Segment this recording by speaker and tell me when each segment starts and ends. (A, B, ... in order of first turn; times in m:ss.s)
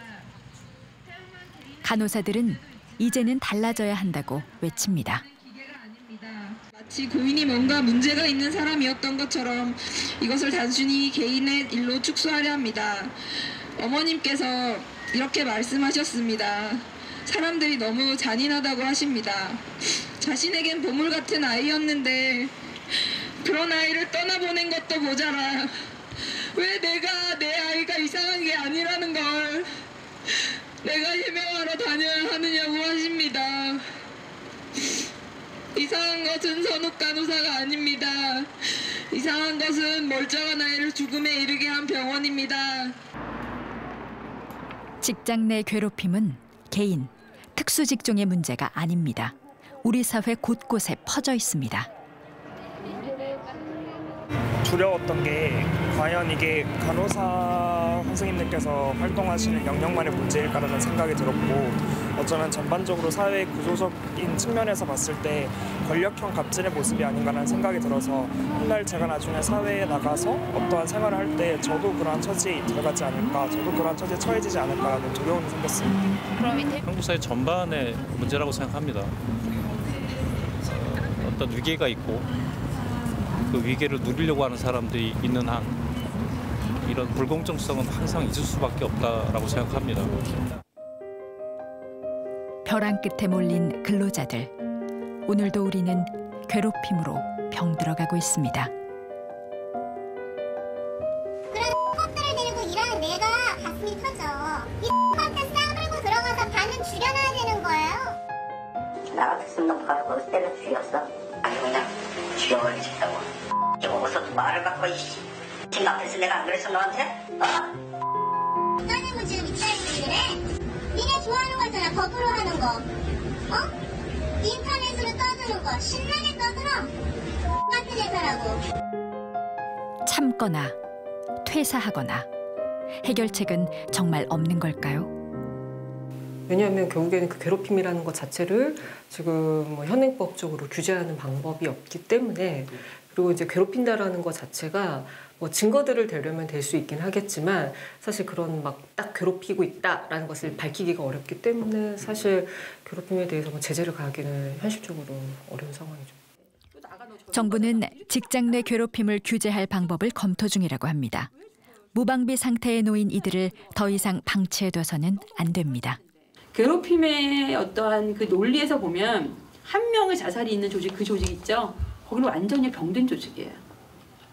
0:01.8-0:05.2 A
0:05.9-0:13.1 B
0:13.8-0:19.6 B
0:20.2-0:22.5 B
0:23.4-0:25.7 B
0:26.5-0:29.7 B
0:30.8-0:33.8 B
0:35.8-0:38.5 B
0:39.1-0:43.0 B
0:45.0-0:51.9 A
0:54.6-1:16.0 C
1:16.8-1:19.2 D
1:20.6-1:22.3 D
1:23.5-1:25.8 D
1:26.8-1:30.2 D
1:32.6-1:34.5 A
1:35.3-1:38.7 A
1:41.5-1:48.2 E
1:49.1-1:53.3 F
1:53.8-1:57.7 F
1:58.8-2:00.4 E
2:00.9-2:02.8 E
2:04.4-2:06.9 E
2:07.7-2:08.6 E
2:10.1-2:10.8 A
2:11.4-2:12.3 A
2:13.0-2:15.1 A
2:16.5-2:36.2 G
2:36.7-2:38.7 H
2:37.3-2:41.3 A
2:41.9-2:46.0 A
2:45.9-2:53.6 H